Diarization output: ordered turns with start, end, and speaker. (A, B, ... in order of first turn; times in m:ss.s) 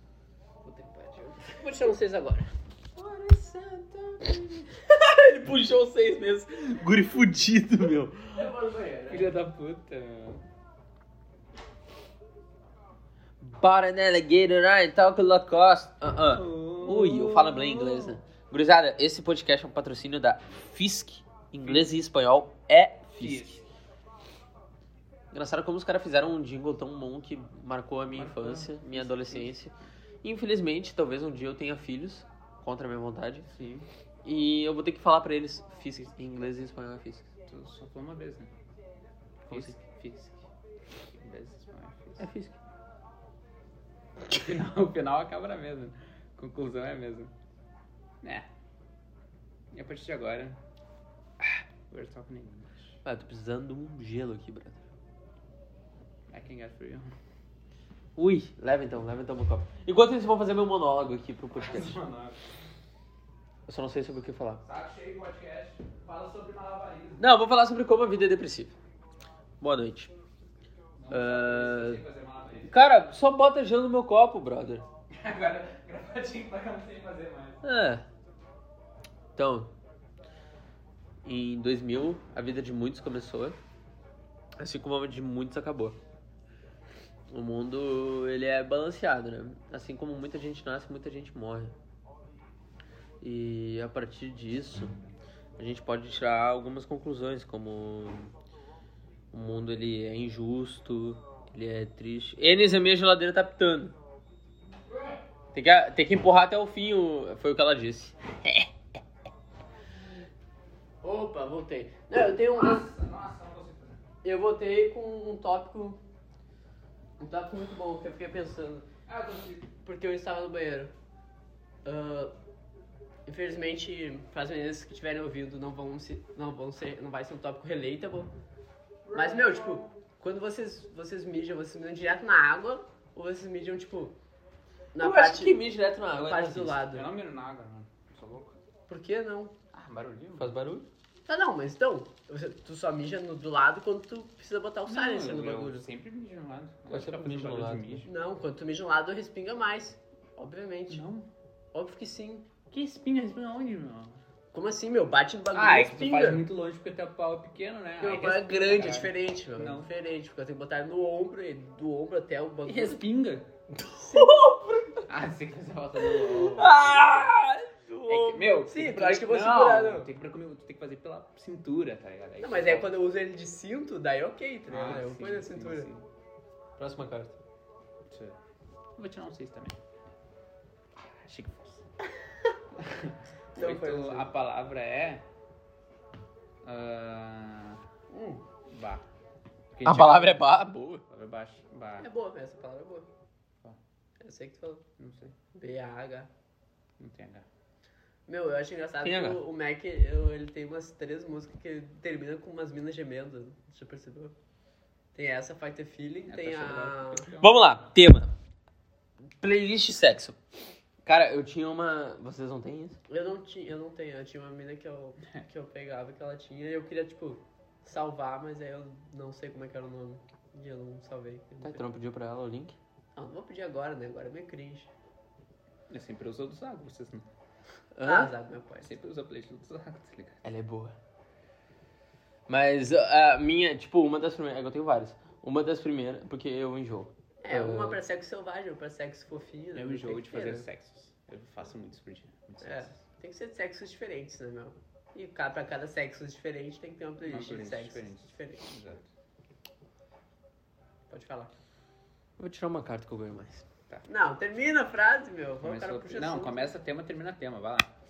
0:00.6-0:02.5 A
0:03.0-0:08.5 B
0:08.3-0:09.4 A
0:09.1-0:10.4 C
0:13.4-0:23.6 B
0:16.3-0:18.2 C
0:21.6-0:21.9 C
0:23.2-0:23.6 C
0:25.3-0:33.5 B
0:28.1-0:29.5 C
0:33.5-0:33.8 C
0:34.2-0:37.2 B
0:37.5-0:38.5 C
0:39.5-0:39.8 B
0:39.5-0:40.4 C
0:41.1-0:42.3 C
0:42.2-0:42.6 B
0:44.3-0:47.3 C
0:48.2-0:48.5 C
0:49.7-0:50.6 C
0:51.9-0:53.0 C
0:53.0-0:54.8 B
0:56.3-0:57.1 C
0:58.2-1:02.0 B
1:01.5-1:02.4 C
1:03.7-1:04.6 B
1:04.6-1:07.3 C
1:07.2-1:08.7 B
1:09.6-1:10.1 B
1:11.0-1:12.7 C
1:11.1-1:12.0 B
1:12.6-1:14.8 B
1:15.1-1:17.6 C
1:17.6-1:18.0 B
1:19.4-1:19.7 B
1:21.2-1:23.6 B
1:24.6-1:26.0 B
1:27.3-1:31.7 B
1:33.2-1:34.9 B
1:35.6-1:38.3 B
1:39.3-1:43.9 B
1:45.5-1:48.7 B
1:51.0-1:52.8 A
1:52.5-1:54.0 C
1:54.2-1:56.0 A
1:57.2-1:58.8 A
1:59.1-1:59.7 C
1:59.8-2:00.9 A
2:01.8-2:02.3 A
2:03.2-2:08.3 A
2:09.0-2:09.9 C
2:09.1-2:14.1 A
2:14.9-2:15.6 A
2:15.0-2:16.8 B
2:16.2-2:17.1 A
2:16.9-2:18.6 C
2:18.9-2:19.5 A
2:19.7-2:20.5 C
2:20.4-2:20.9 B
2:21.3-2:25.8 A
2:24.9-2:28.1 C
2:26.9-2:28.0 B
2:28.0-2:31.0 A
2:30.9-2:31.3 C
2:31.7-2:32.5 A
2:32.7-2:34.2 C
2:34.5-2:36.4 A
2:35.5-2:39.9 C
2:38.0-2:43.0 A
2:42.6-2:43.5 C
2:43.7-2:45.0 B
2:44.0-2:44.5 A
2:45.1-2:47.0 C
2:46.2-2:48.5 B
2:48.1-2:52.9 C
2:48.7-2:50.1 A
2:52.4-2:55.9 A
2:54.7-2:56.0 C
2:56.8-2:57.4 B
2:58.1-2:58.4 C
2:59.0-2:59.8 C
3:01.0-3:01.8 C
3:02.8-3:05.2 C
3:03.5-3:04.3 A
3:06.6-3:07.8 C
3:08.1-3:08.4 A
3:08.7-3:09.0 C
3:09.7-3:10.5 C
3:09.8-3:11.0 B
3:11.1-3:12.1 C
3:12.0-3:13.0 A
3:14.2-3:14.8 A
3:15.0-3:15.3 C
3:15.5-3:16.3 A
3:17.0-3:17.4 C
3:18.3-3:24.3 A
3:19.0-3:19.4 B
3:25.1-3:27.3 A
3:26.3-3:27.5 C
3:27.4-3:28.3 B
3:29.4-3:30.4 B
3:31.0-3:33.0 B
3:33.1-3:41.8 A
3:41.6-3:42.8 B
3:43.2-3:44.9 A
3:45.9-3:47.2 C
3:47.9-3:48.3 B
3:48.0-3:48.9 A
3:48.8-3:50.4 C
3:50.4-3:50.9 B
3:52.5-3:58.0 B
3:57.4-4:00.6 A
3:59.7-4:03.0 C
4:02.6-4:08.6 A
4:07.2-4:09.1 C
4:11.1-4:11.5 A
4:12.4-4:13.6 B
4:14.1-4:16.7 A
4:15.6-4:17.9 C